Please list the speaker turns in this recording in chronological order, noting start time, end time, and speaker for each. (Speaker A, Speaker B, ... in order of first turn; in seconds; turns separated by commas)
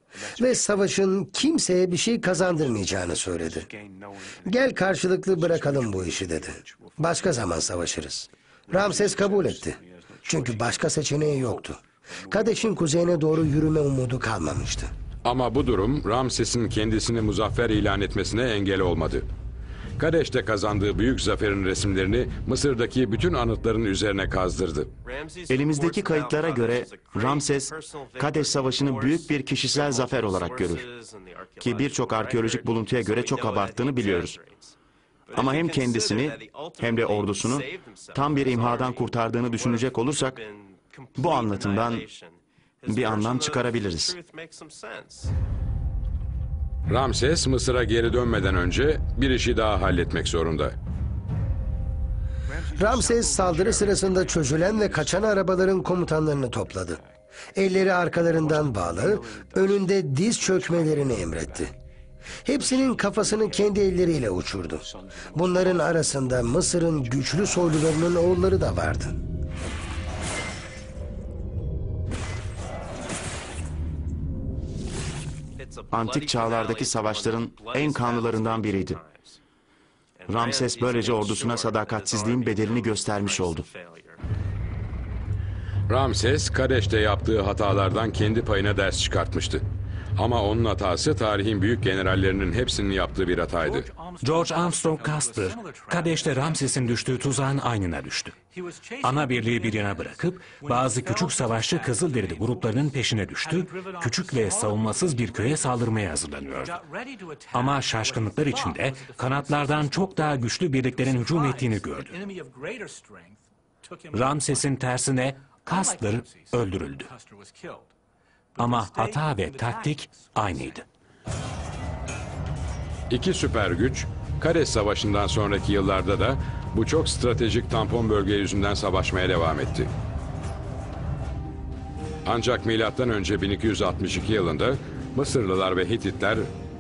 Speaker A: 0.4-3.7, Speaker A: 4.5-14.9, Speaker B: 15.2-19.3, Speaker B: 20.0-24.9, Speaker C: 25.5-30.9, Speaker C: 31.6-34.4, Speaker C: 35.3-40.4, Speaker C: 41.2-42.1, Speaker C: 42.9-44.2, Speaker B: 46.9-50.8, Speaker A: 52.8-57.0, Speaker A: 57.5-61.7, Speaker A: 62.5-69.2, Speaker C: 75.9-79.0, Speaker C: 80.3-83.7, Speaker B: 85.9-89.7, Speaker B: 90.2-93.9, Speaker D: 94.2-98.3, Speaker D: 99.0-106.8, Speaker D: 107.5-112.2, Speaker D: 114.1-117.1, Speaker D: 118.6-120.8, Speaker B: 123.1-129.9, Speaker B: 132.2-136.5